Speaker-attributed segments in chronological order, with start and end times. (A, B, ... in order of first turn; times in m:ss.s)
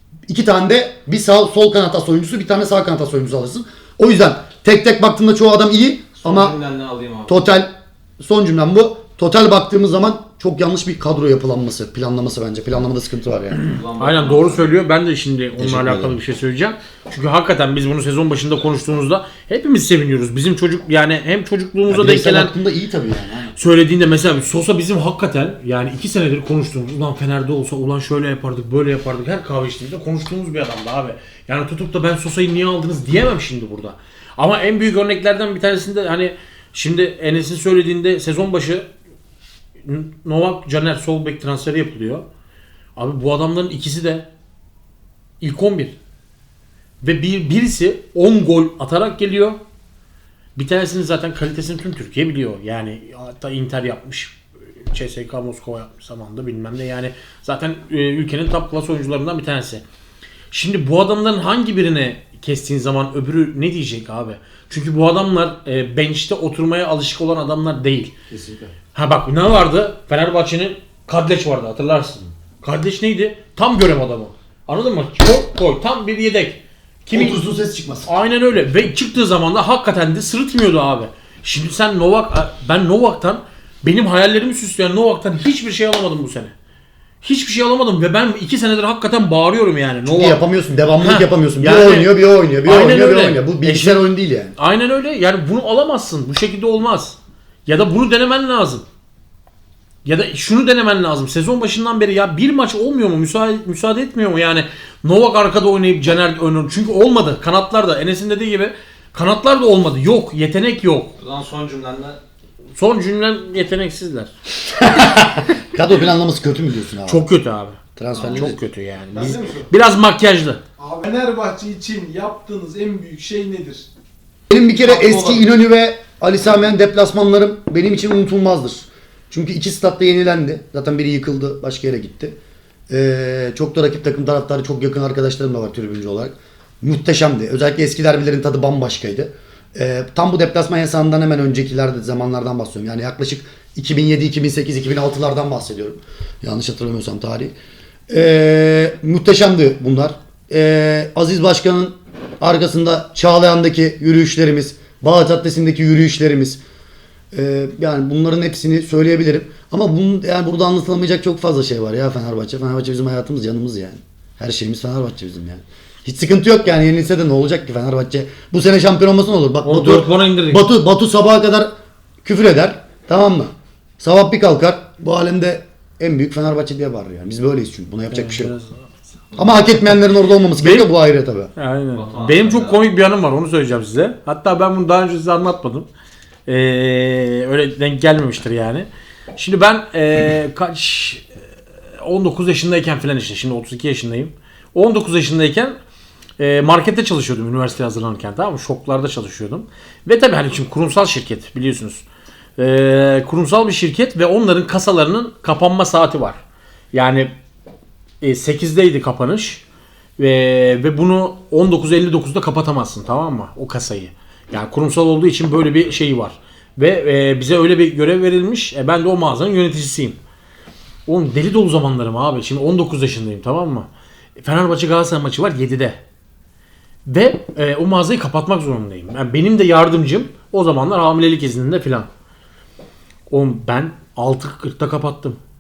0:00.3-0:06.6 A
0:06.2-0:07.5 B
0:07.3-0:13.6 A
0:13.6-0:14.7 B
0:14.0-0:22.5 C
0:15.6-0:16.2 A
0:21.9-0:23.5 A
0:23.6-0:38.9 C
0:39.8-0:42.2 C
0:43.0-0:44.3 C
0:45.4-0:46.0 C
0:47.0-0:49.6 C
0:50.6-0:54.4 C
0:54.9-0:59.8 C
1:00.5-1:08.1 C
1:08.3-1:08.7 A
1:08.9-1:17.4 C
1:17.1-1:18.1 A
1:18.0-1:26.5 C
1:27.2-1:30.4 C
1:30.0-1:34.5 A
1:31.0-1:32.1 C
1:32.6-1:38.8 C
1:40.0-1:51.1 C
1:51.2-1:52.2 B
1:52.8-1:54.3 C
1:54.7-1:57.2 A
1:57.1-2:00.6 C
1:58.0-1:58.6 A
1:58.1-1:58.5 B
1:59.1-1:59.7 D
2:00.8-2:03.9 D
2:04.5-2:12.4 A
2:04.8-2:05.5 B
2:12.9-2:27.5 A
2:28.1-2:36.6 A
2:37.3-2:51.7 A
2:49.6-2:50.6 C
2:52.2-2:58.5 A
2:58.1-2:58.8 C
2:59.4-3:01.5 A
3:00.6-3:00.9 C
3:01.6-3:05.9 C
3:01.9-3:02.8 B
3:06.5-3:11.2 C
3:12.0-3:15.7 C
3:16.4-3:22.0 C
3:22.6-3:26.4 C
3:26.9-3:27.3 C
3:28.2-3:29.6 C
3:30.2-3:40.2 C
3:41.0-3:46.0 C
3:47.0-3:52.1 C
3:53.3-3:55.4 C